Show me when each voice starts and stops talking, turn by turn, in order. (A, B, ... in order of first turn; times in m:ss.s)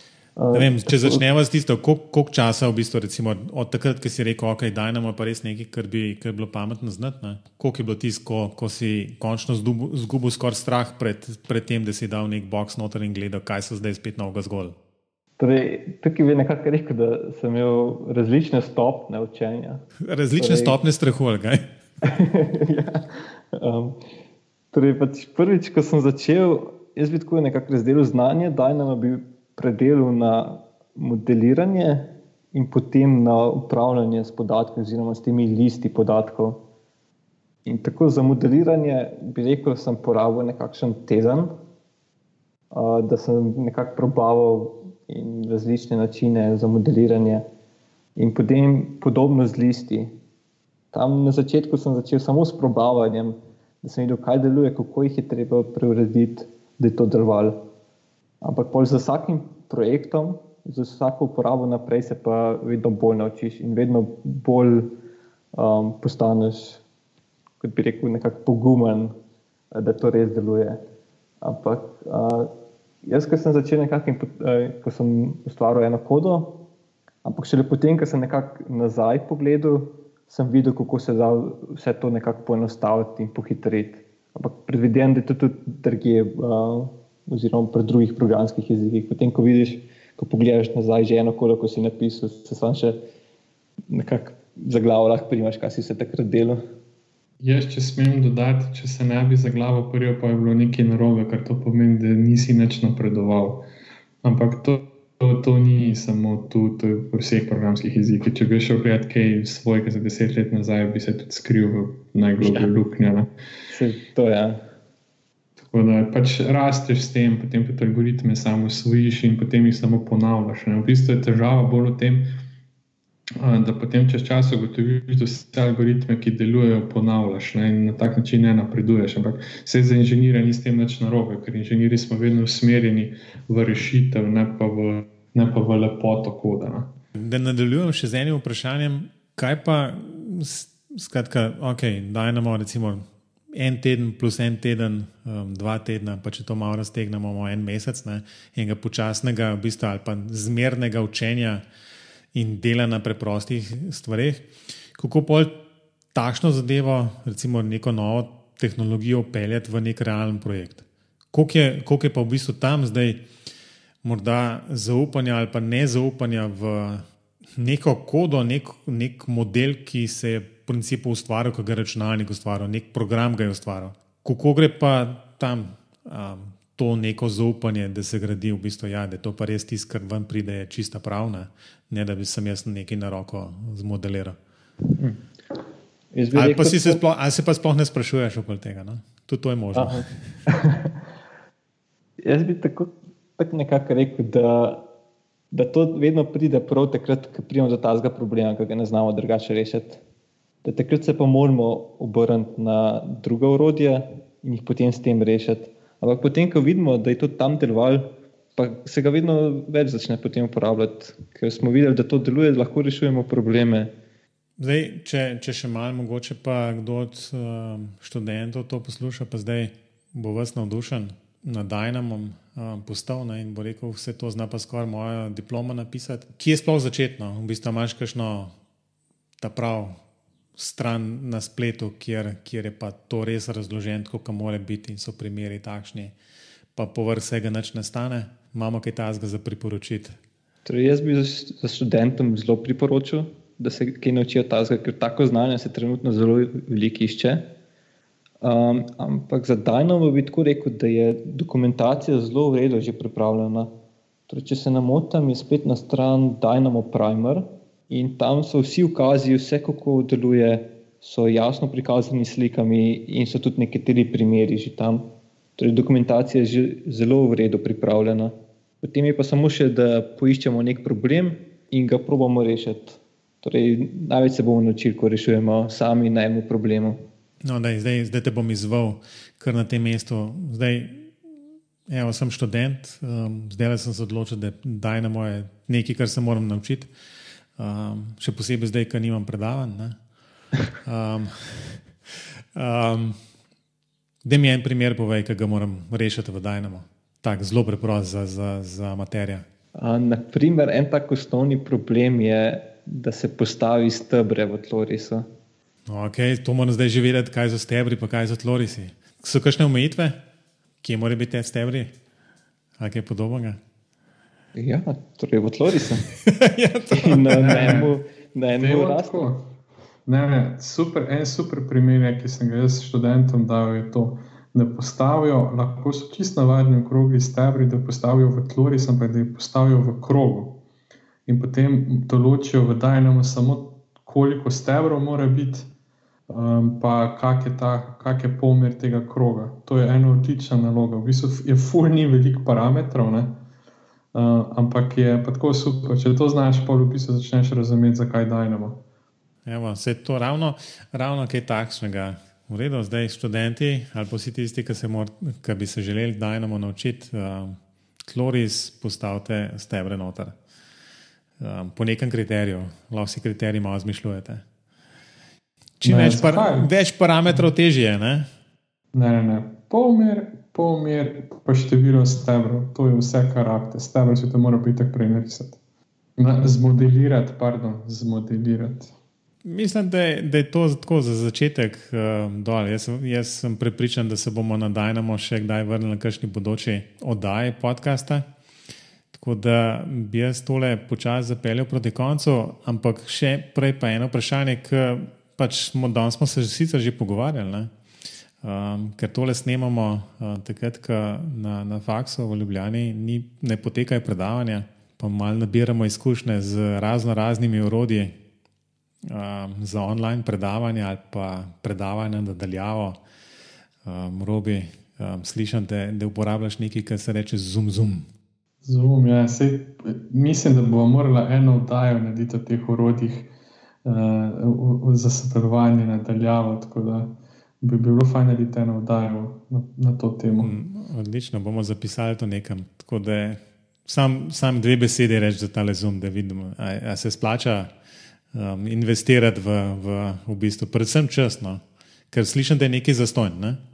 0:00.4-0:01.2 A
0:00.5-0:14.8 B
0:15.4-0:19.8 A
0:20.1-0:21.6 B
0:20.4-0:20.8 A
0:22.0-0:24.0 A
0:24.7-0:36.6 A
0:37.7-0:41.5 A
0:42.7-0:47.4 A
0:48.2-0:50.1 A
0:50.9-0:57.6 A
0:58.4-1:04.9 A
1:05.6-1:06.8 A
1:07.6-1:09.1 A
1:09.7-1:10.8 A
1:11.4-1:12.5 A
1:13.0-1:16.5 A
1:17.2-1:33.0 A
1:33.9-1:36.6 A
1:37.4-1:43.6 C
1:44.2-1:53.3 C
1:52.4-1:52.7 A
1:53.7-1:54.6 A
1:55.6-2:02.3 C
2:03.4-2:16.9 C
2:17.2-2:31.6 B
2:32.3-2:35.5 B
2:36.1-2:43.2 B
2:44.0-2:47.0 B
2:47.6-3:04.4 B
3:06.1-3:07.0 A
3:06.3-3:10.1 B
3:09.7-3:11.0 A
3:12.2-3:14.8 A
3:15.5-3:20.0 A
3:20.6-3:33.9 A
3:34.6-3:48.5 B
3:49.4-3:50.0 B
3:50.6-3:56.1 B
3:56.8-4:00.2 B
4:00.6-4:07.5 A
4:08.4-4:13.7 A
4:14.3-4:25.1 A
4:25.6-4:37.0 A
4:37.4-4:41.1 B
4:41.9-4:46.9 B
4:47.6-4:50.0 B
4:50.8-4:53.2 B
4:54.2-4:59.5 B
4:59.8-5:05.3 A
5:05.9-5:10.2 B
5:10.8-5:11.9 B
5:12.8-5:13.6 B
5:14.6-5:16.1 A
5:16.2-5:17.8 B
5:17.0-5:19.3 A
5:17.4-5:17.9 C
5:18.6-5:19.5 C
5:20.1-5:30.6 C
5:31.3-5:35.7 C
5:36.3-5:43.4 C
5:44.1-5:48.8 C
5:49.5-6:00.4 B
6:01.4-6:04.4 B
6:05.8-6:08.3 B
6:05.8-6:06.7 C
6:08.9-6:15.6 C
6:16.2-6:18.9 C
6:19.4-6:28.3 B
6:29.1-6:37.7 B
6:38.4-6:48.1 B
6:49.1-6:53.0 B
6:53.8-6:58.1 B
6:58.6-7:03.3 C
7:03.8-7:10.5 C
7:10.4-7:17.7 B
7:18.3-7:23.6 B